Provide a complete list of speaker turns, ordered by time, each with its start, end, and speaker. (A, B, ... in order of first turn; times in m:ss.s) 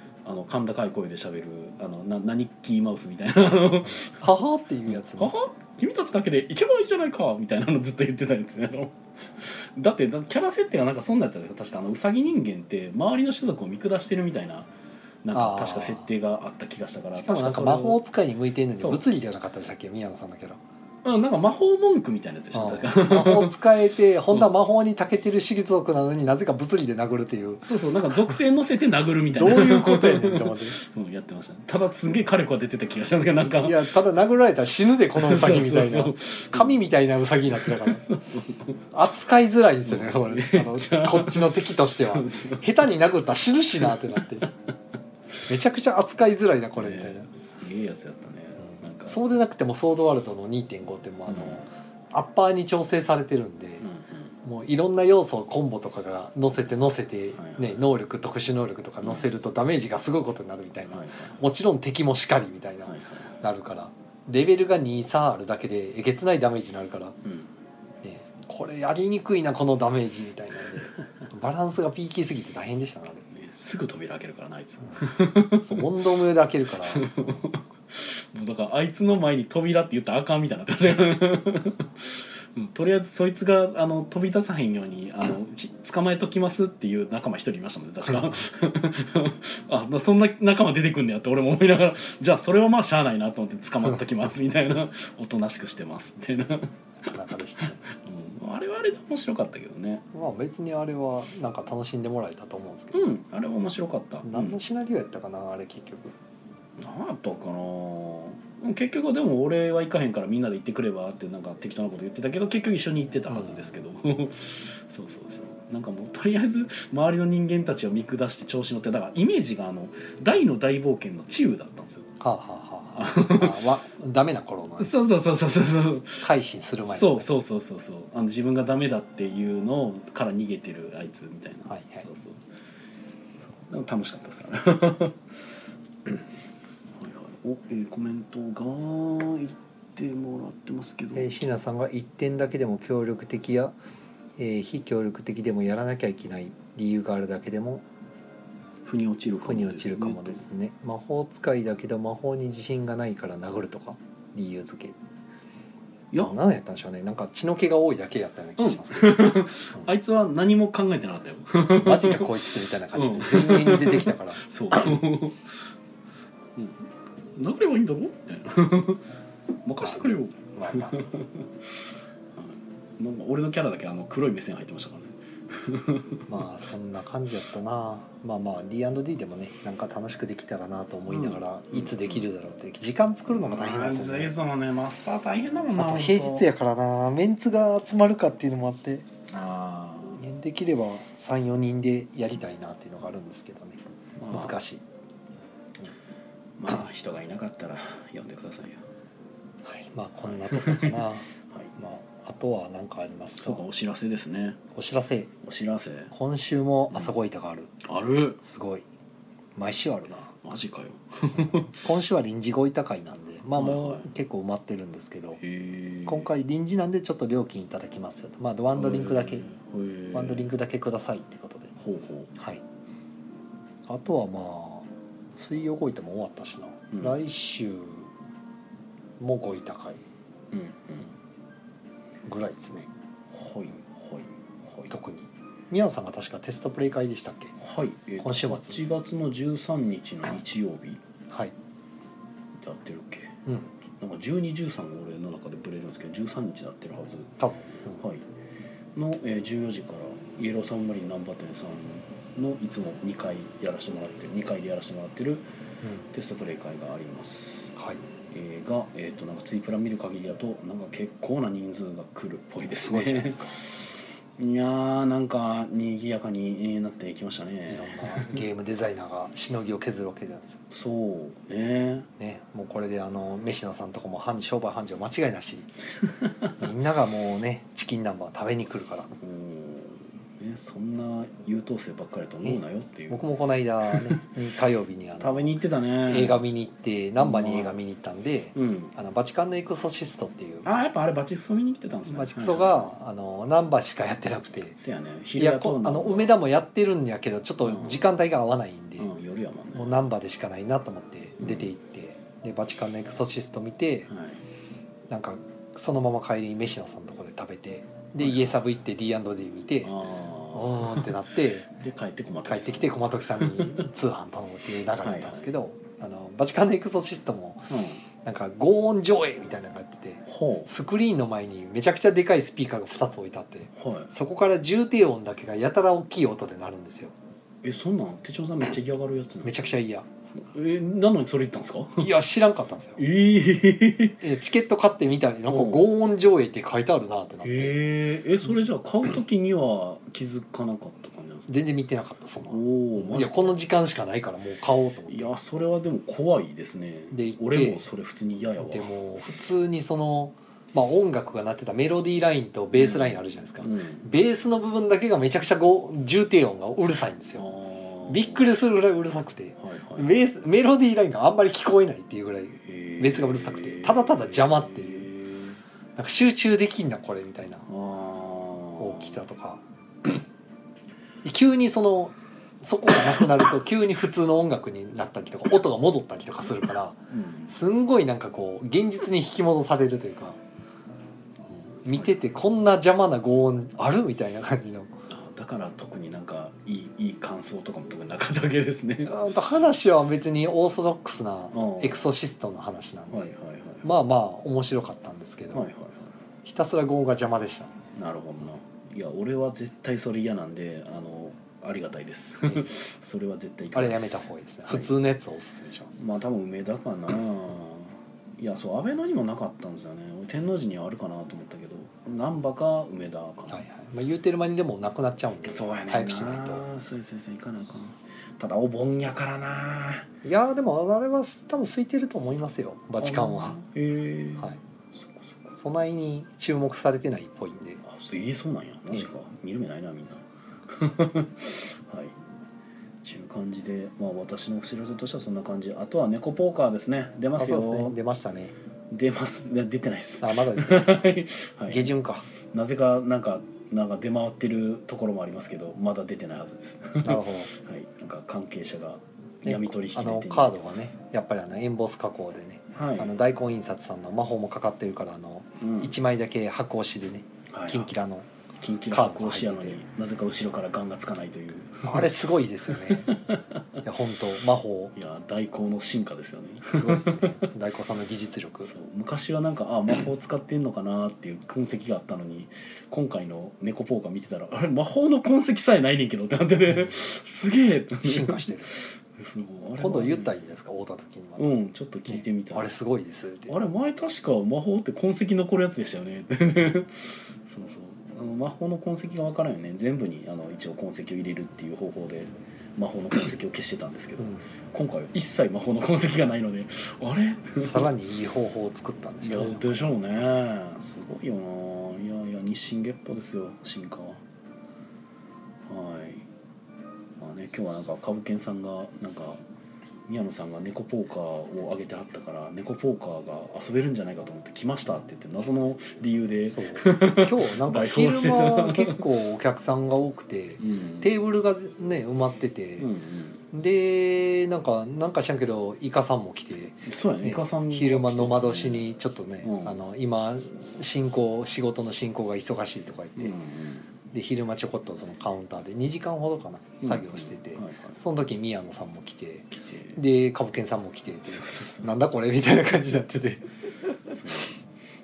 0:00.2-0:04.2 A
0:03.9-0:05.3 B
0:04.9-0:14.7 A
0:15.2-0:18.0 A
0:15.3-0:16.1 B
0:17.2-0:20.6 B
0:18.8-0:19.0 A
0:21.0-0:23.6 A
0:22.5-0:28.4 B
0:27.6-0:33.8 A
0:29.3-0:30.8 B
0:33.6-0:38.1 B
0:35.2-0:36.8 A
0:37.6-0:38.8 A
0:38.9-0:44.5 B
0:39.8-0:42.7 A
0:45.5-0:47.3 B
0:46.8-0:49.2 A
0:49.0-0:53.9 B
0:51.3-0:51.6 A
0:53.8-0:54.4 A
0:54.4-1:07.2 B
0:57.4-0:57.8 A
1:00.9-1:01.4 A
1:02.8-1:03.4 A
1:07.2-1:07.5 A
1:08.0-1:13.2 B
1:13.3-1:15.9 A
1:15.6-1:17.5 B
1:16.8-1:40.0 A
1:37.0-1:37.8 B
1:40.1-1:43.1 B
1:42.9-1:44.6 A
1:44.2-1:46.2 B
1:46.8-2:02.1 A
1:53.3-1:53.8 B
2:02.2-2:04.9 B
2:03.0-2:03.6 A
2:04.8-2:06.3 A
2:06.2-2:07.3 B
2:06.8-2:12.4 A
2:11.7-2:12.0 B
2:13.7-2:15.2 A
2:17.0-2:21.3 A
2:21.1-2:23.8 B
2:24.4-2:27.8 B
2:28.8-2:30.5 A
2:29.4-2:35.0 B
2:36.2-2:39.9 B
2:38.6-2:45.4 A
2:41.8-2:45.0 B
2:46.6-2:49.0 A
2:49.6-2:51.5 A
2:49.8-2:51.2 B
2:52.4-2:56.5 A
2:56.3-3:04.4 B
3:01.1-3:02.3 A
3:03.3-3:06.5 A
3:05.8-3:09.1 B
3:09.3-3:10.2 A
3:10.0-3:13.8 B
3:14.2-3:14.6 A
3:14.3-3:14.8 B
3:16.6-3:18.8 A
3:19.6-3:23.6 B
3:20.2-3:21.8 A
3:23.4-3:24.6 A
3:24.7-3:25.3 B
3:25.4-3:26.1 A
3:26.1-3:27.7 B
3:27.8-3:28.4 A
3:28.4-3:28.9 B
3:29.6-3:30.3 B
3:30.4-3:31.8 A
3:31.4-3:35.4 B
3:33.6-3:34.1 A
3:35.4-3:36.3 A
3:36.1-3:39.4 B
3:38.7-3:40.5 A
3:40.1-3:41.7 B
3:41.8-3:42.3 A
3:42.4-3:42.6 B
3:43.9-3:48.1 B
3:46.9-3:47.2 A
3:49.2-3:50.0 B
3:50.5-3:51.1 A
3:52.2-3:52.9 B
3:53.3-3:54.9 A
3:54.9-3:57.6 B
3:57.6-4:01.0 A
3:58.2-3:58.8 B
4:02.6-4:03.4 A
4:03.5-4:03.7 B
4:04.0-4:07.4 A
4:07.4-4:08.0 B
4:07.9-4:08.2 A
4:09.0-4:15.5 A
4:15.8-4:16.1 B
4:16.1-4:17.7 A
4:17.7-4:18.0 B
4:18.3-4:23.9 A
4:22.6-4:23.6 B
4:24.4-4:28.4 A
4:27.7-4:30.6 B
4:30.7-4:32.1 A
4:32.2-4:35.7 B
4:36.1-4:36.5 A
4:36.6-4:39.1 B
4:39.2-4:43.3 A
4:42.4-4:45.5 B
4:43.9-4:44.2 A
4:45.2-4:46.4 A
4:46.1-4:50.7 B
4:47.2-4:47.8 A
4:48.6-4:48.9 A
4:50.6-4:52.9 A
4:52.1-4:54.8 B
4:54.8-4:56.4 A
4:55.4-4:59.1 B
4:57.7-4:58.1 A
4:59.0-4:59.9 A
4:59.7-5:04.1 B
5:01.4-5:01.7 A
5:04.1-5:04.4 A
5:05.1-5:09.9 B
5:08.2-5:08.6 A
5:09.8-5:11.2 A
5:10.5-5:11.7 B
5:11.7-5:13.9 A
5:12.4-5:17.7 B
5:15.0-5:15.5 A
5:17.7-5:18.0 A
5:18.2-5:27.1 B
5:20.3-5:20.7 A
5:23.8-5:24.1 A
5:27.6-5:29.8 A
5:29.4-5:30.1 B
5:30.4-5:32.1 A
5:32.0-5:33.0 B
5:33.0-5:34.2 A
5:34.2-5:37.8 B
5:35.5-5:35.8 A
5:37.4-5:41.5 A
5:41.5-5:45.3 B
5:42.5-5:43.5 A
5:45.1-5:48.9 A
5:47.1-5:47.9 B
5:48.6-5:57.4 B
5:52.8-5:54.1 A
5:57.4-5:58.5 A
5:58.1-6:05.1 B
5:59.6-6:00.2 A
6:02.7-6:05.6 A
6:06.0-6:07.6 B
6:07.7-6:09.3 A
6:08.8-6:10.3 B
6:11.2-6:20.4 B
6:17.1-6:17.6 A
6:21.5-6:24.9 B
6:25.1-6:29.2 A
6:29.1-6:33.3 B
6:31.5-6:32.1 A
6:33.1-6:33.9 A
6:33.8-6:35.7 B
6:35.5-6:36.2 A
6:36.4-6:37.8 B
6:38.0-6:44.9 A
6:42.4-6:42.7 B
6:43.7-6:46.0 B
6:46.0-6:53.7 A
6:53.5-6:56.6 B
6:55.4-7:00.1 A
7:00.2-7:03.6 B
7:03.0-7:05.6 A
7:05.6-7:07.8 B
7:07.8-7:12.2 A
7:13.0-7:18.0 A
7:17.4-7:18.5 B
7:18.9-7:21.9 A
7:20.2-7:21.1 B
7:21.7-7:22.3 B
7:22.5-7:30.7 A
7:27.0-7:27.5 B
7:29.4-7:38.3 B
7:32.7-7:33.1 A
7:35.6-7:36.0 A
7:37.5-7:37.9 A
7:38.6-7:42.1 A
7:38.9-7:39.8 B
7:41.8-7:43.1 B
7:42.7-7:43.6 A
7:43.8-7:45.0 B
7:45.0-7:47.5 A
7:46.7-7:48.7 B
7:48.7-7:58.5 A
7:56.7-7:57.0 B
7:58.0-7:58.7 B
7:59.2-8:00.3 A
7:59.8-8:01.5 B
8:01.4-8:02.7 A
8:02.1-8:03.6 B
8:03.5-8:17.9 A
8:14.2-8:14.4 B
8:17.6-8:20.2 B
8:19.2-8:24.2 A
8:25.7-8:26.3 A
8:27.2-8:29.4 A
8:30.1-8:39.0 A
8:36.5-8:42.9 B
8:40.6-8:41.1 A
8:42.8-8:43.4 A
8:43.5-8:53.4 B
8:46.9-8:48.8 A
8:49.4-8:49.8 A
8:53.2-8:53.9 A
8:54.1-9:03.9 B
8:56.8-8:58.0 A
8:59.5-9:00.0 A
9:01.3-9:01.9 A
9:04.1-9:04.6 A